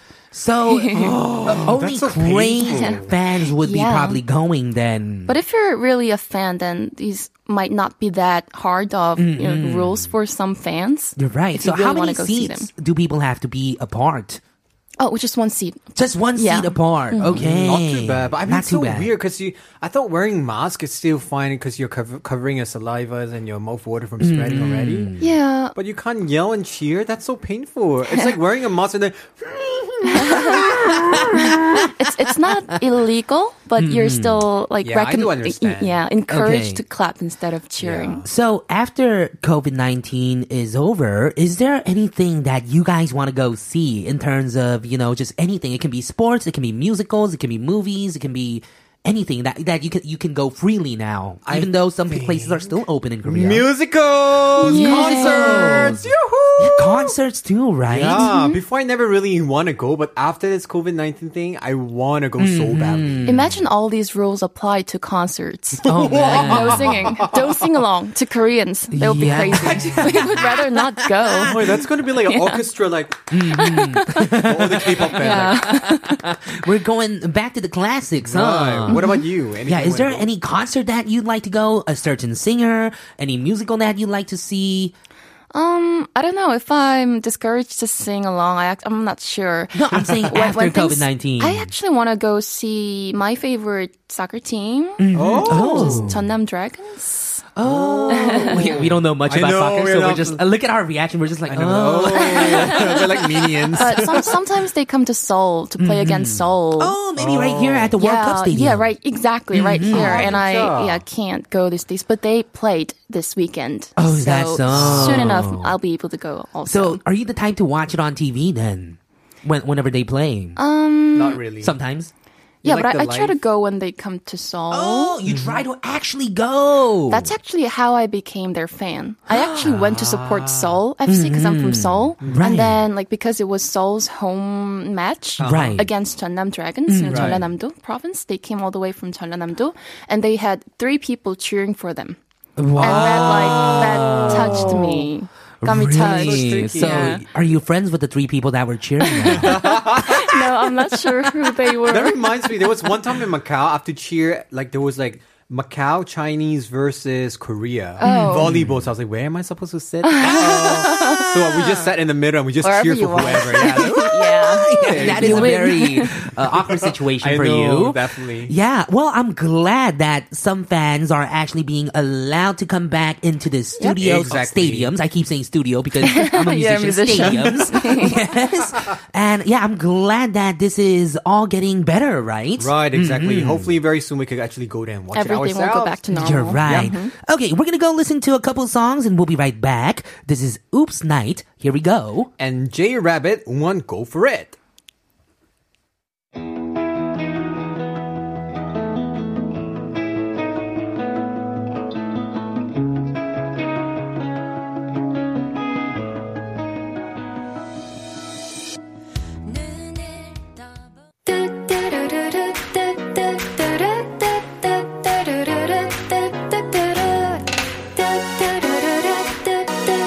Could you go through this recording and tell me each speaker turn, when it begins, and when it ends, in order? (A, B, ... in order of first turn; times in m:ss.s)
0:00.3-0:05.4 A
0:00.7-0:01.2 B
0:01.0-0:03.1 C
0:03.6-0:04.2 B
0:05.3-0:12.7 B
0:09.2-0:10.1 A
0:11.2-0:14.4 A
0:15.0-0:17.4 B
0:16.0-0:19.1 A
0:17.4-0:25.1 C
0:24.2-0:25.4 A
0:25.2-0:25.7 B
0:25.7-0:31.8 C
0:30.1-0:30.7 B
0:30.2-0:32.0 A
0:31.3-0:38.2 B
0:33.8-0:34.4 A
0:34.8-0:36.0 C
0:36.3-0:36.8 A
0:37.8-0:38.2 C
0:38.2-0:53.7 A
0:51.4-0:57.1 C
0:54.6-0:56.0 B
0:54.6-0:56.0 A
0:56.6-0:58.3 A
0:57.9-1:03.3 C
0:58.1-0:58.6 B
1:02.4-1:03.5 A
1:03.2-1:12.6 B
1:05.8-1:07.0 A
1:05.8-1:07.4 C
1:08.9-1:11.8 A
1:09.5-1:10.0 C
1:11.4-1:13.3 C
1:13.3-1:19.1 A
1:13.5-1:16.4 B
1:14.1-1:15.7 C
1:18.2-1:20.3 C
1:18.9-1:19.2 B
1:19.6-1:24.9 A
1:25.5-1:37.4 B
1:29.7-1:31.7 A
1:35.0-1:36.3 A
1:35.1-1:36.1 C
1:37.6-1:44.3 A
1:37.6-1:40.4 C
1:38.1-1:38.7 B
1:41.5-1:44.4 C
1:42.2-1:43.0 B
1:43.7-1:47.0 B
1:45.8-1:48.9 A
1:47.2-1:47.9 C
1:48.0-1:57.0 B
1:49.5-1:50.3 A
1:49.9-1:51.0 C
1:54.0-1:55.7 A
1:54.7-1:55.4 C
1:56.7-2:00.6 A
2:00.6-2:01.4 B
2:01.1-2:01.8 C
2:01.6-2:02.1 A
2:02.6-2:03.4 C
2:02.6-2:05.2 B
2:04.7-2:07.3 A
2:05.2-2:05.6 C
2:07.1-2:22.2 B
2:09.3-2:09.7 A
2:09.6-2:10.8 C
2:11.1-2:12.8 A
2:15.4-2:15.8 C
2:15.4-2:15.9 A
2:16.9-2:17.4 A
2:17.1-2:17.4 C
2:22.6-2:25.1 A
2:22.8-2:27.2 B
2:22.8-2:25.0 C
2:25.6-2:30.0 A
2:25.9-2:27.2 C
2:29.0-2:32.7 B
2:29.3-2:30.4 C
2:31.9-2:48.5 C
2:38.0-2:38.5 B
2:38.0-2:38.8 A
2:40.0-2:41.8 B
2:42.6-2:46.1 B
2:43.6-3:03.7 A
2:54.0-2:54.9 C
2:56.0-2:58.2 B
3:02.6-3:06.1 C
3:05.1-3:07.1 B
3:06.1-3:12.3 A
3:06.6-3:06.9 C
3:12.4-3:14.6 C
3:31.3-3:32.4 B